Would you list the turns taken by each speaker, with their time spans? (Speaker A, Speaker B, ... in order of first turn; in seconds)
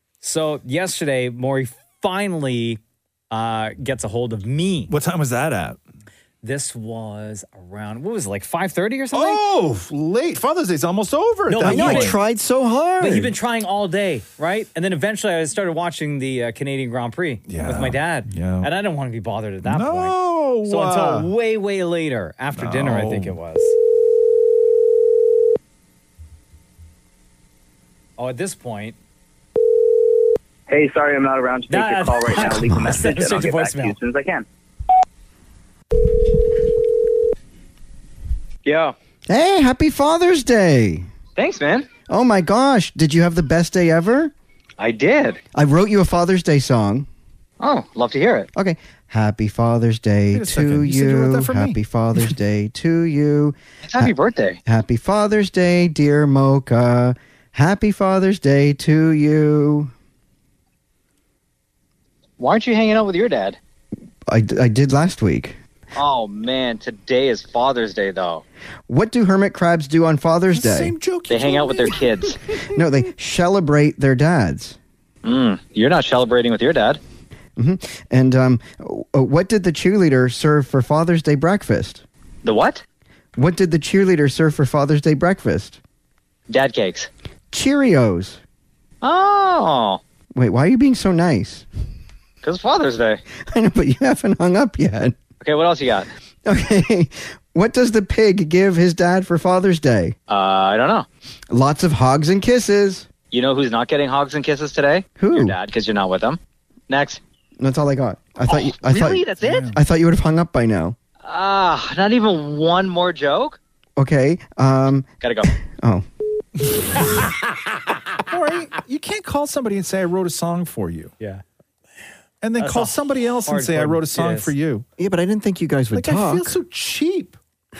Speaker A: 0.2-2.8, 3.3-4.9, 6.4-9.4, 11.5-12.2, 13.0-23.7, 28.2-28.9, 31.7-33.9, 122.6-124.5
Speaker B: 4.9-5.8, 9.1-12.2, 17.5-18.7, 19.6-21.3, 22.6-23.3, 50.3-51.8, 70.5-72.3, 109.4-109.7, 118.2-121.1, 122.4-124.8, 125.9-127.4
Speaker C: 11.6-13.3, 39.3-41.1, 42.1-44.3, 45.5-47.1, 48.5-54.1, 54.6-59.9, 64.3-65.6, 68.9-70.9, 72.6-74.8, 77.5-82.0, 83.3-85.8, 87.5-88.4, 90.3-91.7, 93.5-95.1, 96.4-100.1, 101.5-103.1, 105.2-105.5, 107.6-111.0, 114.0-116.0, 125.0-126.5
Speaker D: 30.7-34.4
Speaker E: 38.6-38.9, 41.4-41.9, 44.8-45.4, 47.6-48.5, 53.9-54.6, 62.4-63.6, 65.9-68.4, 71.3-72.4, 75.2-77.0, 82.4-82.8, 86.5-87.1, 89.0-90.0, 92.4-93.2, 95.4-96.1, 100.3-101.0, 103.3-107.2, 108.5-109.7, 111.2-113.6, 115.2-115.5